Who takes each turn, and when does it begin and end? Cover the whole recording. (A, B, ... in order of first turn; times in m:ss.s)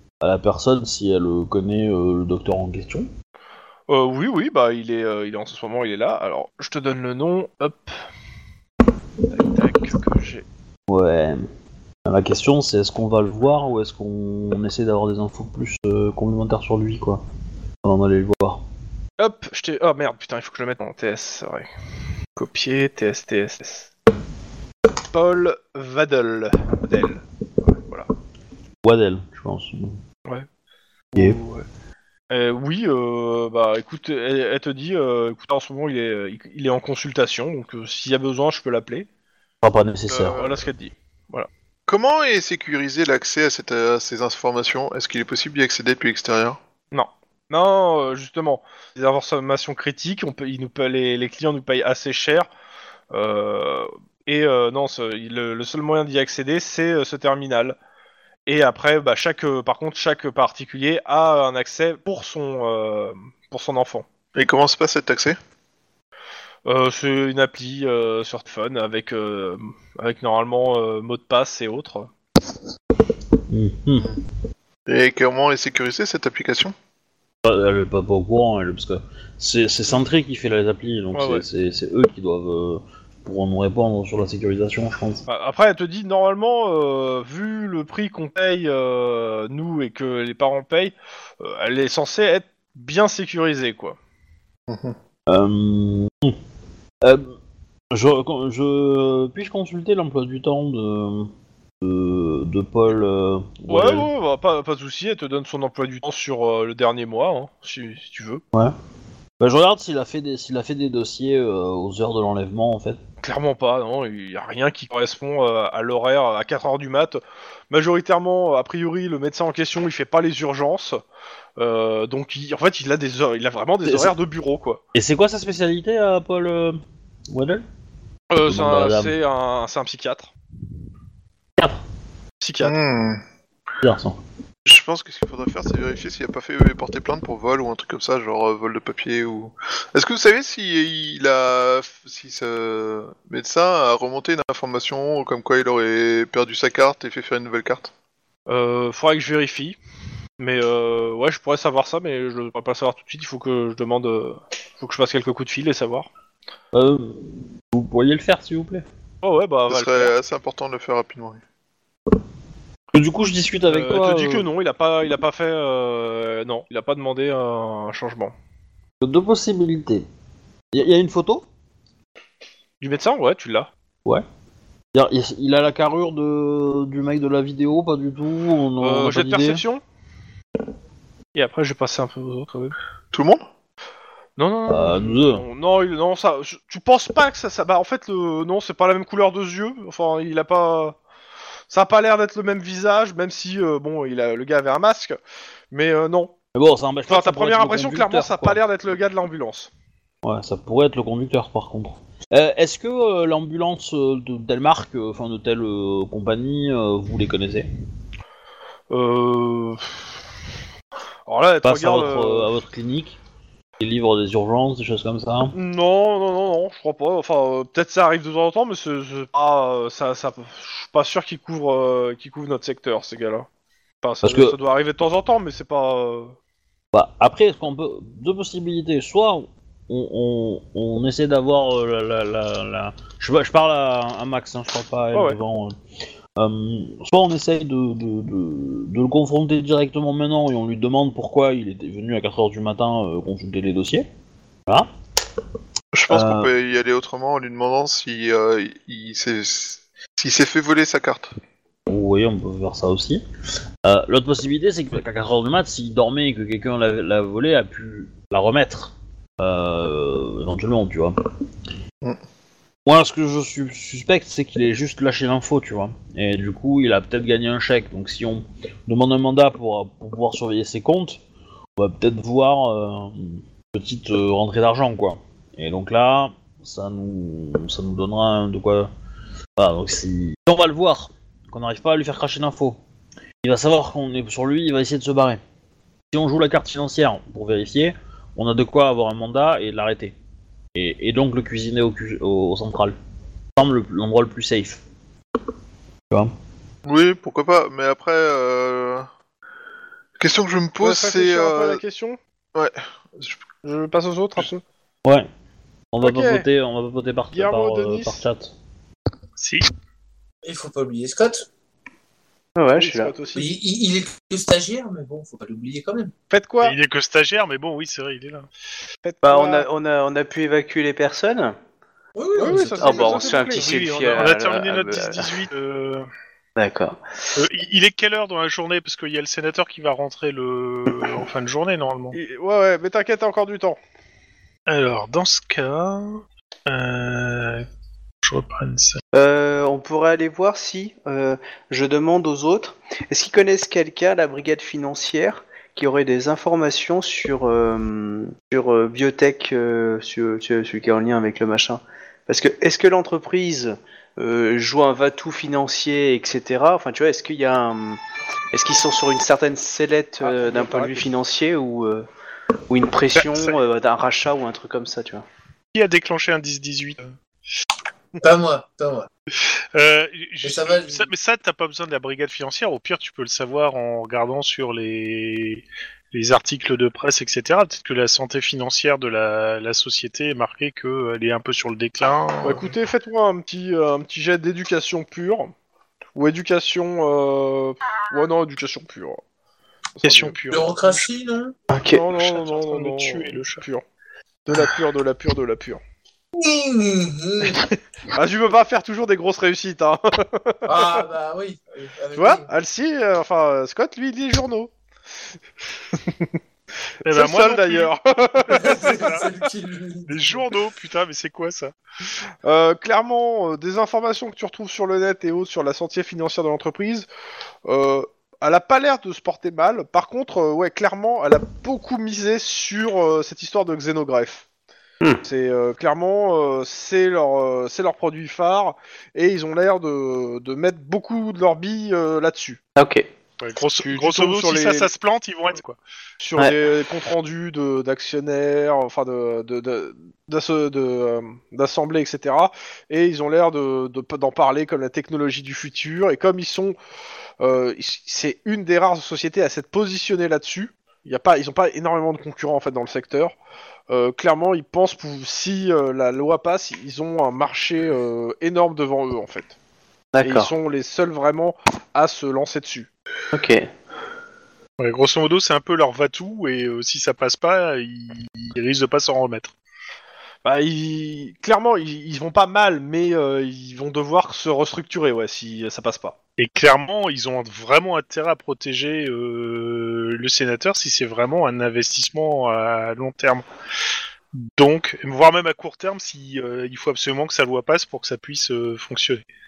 0:00.2-0:03.1 A
0:03.9-0:08.0 B
0:09.3-0:10.5 B
0:10.9-0:11.4 A
0:12.1-0:17.2 A
0:17.8-0:18.6 A
0:19.2-0:21.7 B
0:22.4-0:23.9 B
0:25.1-0:28.1 B
0:28.8-0:30.0 A
0:31.1-0:31.7 B
0:31.2-0:31.4 A
0:32.3-0:39.1 B
0:39.6-0:40.5 A
0:40.1-0:41.5 B
0:41.9-0:46.6 C
0:46.9-0:52.5 B
0:53.1-0:57.8 B
0:58.5-1:04.1 B
1:04.4-1:05.4 C
1:06.7-1:12.1 B
1:13.5-1:14.1 A
1:14.9-1:16.8 C
1:17.4-1:25.2 A
1:21.2-1:21.4 B
1:25.3-1:34.0 B
1:34.7-1:35.0 C
1:35.3-1:36.4 A
1:37.0-1:37.4 A
1:37.9-1:41.3 A
1:41.8-1:44.1 A
1:43.7-1:48.4 B
1:49.4-1:53.0 A
1:53.2-2:01.0 B
2:01.6-2:04.8 B
2:03.8-2:04.1 A
2:05.0-2:07.6 A
2:08.3-2:10.3 B
2:08.5-2:09.2 A
2:12.4-2:12.8 B
2:12.6-2:13.2 C
2:13.8-2:14.2 A
2:14.7-2:27.9 C
2:28.5-2:29.8 B
2:30.4-2:36.1 B
2:36.7-2:38.8 A
2:39.2-2:40.1 B
2:39.7-2:41.4 C
2:42.9-2:44.4 A
2:43.7-2:48.3 B
2:49.0-2:50.0 A
2:50.7-2:51.5 A
2:52.8-2:53.7 B
2:54.9-2:59.6 A
2:58.8-2:59.8 B
3:01.3-3:02.8 B
3:03.1-3:03.5 C
3:04.4-3:11.0 B
3:04.7-3:05.4 A
3:11.7-3:15.2 B
3:15.7-3:16.3 B
3:16.6-3:18.6 A
3:17.1-3:19.7 B
3:20.2-3:27.7 A
3:28.9-3:30.1 B
3:31.3-3:32.5 B
3:31.6-3:33.2 A
3:33.8-3:35.6 A
3:35.5-3:43.5 B
3:44.0-3:46.4 B
3:44.2-3:44.6 A
3:46.9-3:55.8 A
3:56.4-4:04.1 A
4:05.9-4:11.3 C
4:06.1-4:06.5 A
4:11.9-4:13.2 A
4:13.8-4:21.2 A
4:22.9-4:31.2 A
4:31.8-4:38.9 A
4:39.6-4:42.8 A
4:43.4-4:45.4 A
4:46.1-4:50.2 A
4:50.8-4:53.0 A
4:53.6-4:54.8 A
4:56.8-4:59.1 C
5:00.2-5:01.8 C
5:00.8-5:02.2 B
5:02.6-5:03.4 C
5:03.6-5:04.6 B
5:05.9-5:08.5 A
5:06.0-5:06.4 B
5:07.3-5:08.2 B
5:09.4-5:09.7 D
5:10.4-5:11.5 E
5:12.6-5:13.2 F
5:12.7-5:13.5 B
5:13.4-5:16.1 E
5:16.3-5:16.8 B
5:16.6-5:18.5 D
5:19.0-5:19.7 B
5:19.2-5:21.6 F
5:22.2-5:23.4 E
5:22.4-5:24.2 B
5:22.5-5:25.3 F
5:23.6-5:26.1 D
5:26.6-5:27.0 F
5:27.4-5:32.2 D
5:32.1-5:33.8 B
5:34.7-5:37.7 D
5:38.2-5:39.0 D
5:39.1-5:58.0 F
5:58.5-6:02.1 F
6:00.2-6:01.1 B
6:02.7-6:05.2 F
6:03.2-6:03.6 D
6:05.7-6:07.2 D
6:08.2-6:09.1 E
6:09.4-6:22.7 D
6:10.4-6:11.1 E
6:22.4-6:25.5 B
6:26.2-6:29.2 B
6:30.0-6:30.4 B
6:30.0-6:31.1 D
6:30.5-6:31.6 E
6:31.7-6:32.1 F
6:31.8-6:33.8 B
6:32.1-6:33.6 D
6:34.5-6:35.8 B
6:36.3-6:37.6 E
6:38.1-6:41.1 B
6:40.7-6:42.5 E
6:42.2-6:44.7 B
6:45.9-6:46.3 B
6:47.0-6:49.3 D
6:47.1-6:49.1 B
6:48.5-6:50.5 E
6:50.1-6:51.7 D
6:52.4-6:57.1 B
6:57.7-7:04.4 B
7:05.2-7:12.6 B
7:12.8-7:13.1 F
7:13.4-7:15.8 D
7:13.6-7:14.9 B
7:16.2-7:26.8 B
7:27.4-7:33.4 B
7:33.9-7:39.6 B
7:40.1-7:40.5 F
7:40.2-7:42.9 B
7:43.3-7:43.7 F
7:44.8-7:49.6 D
7:50.4-7:56.2 B
7:56.4-8:03.5 D
8:04.3-8:09.3 D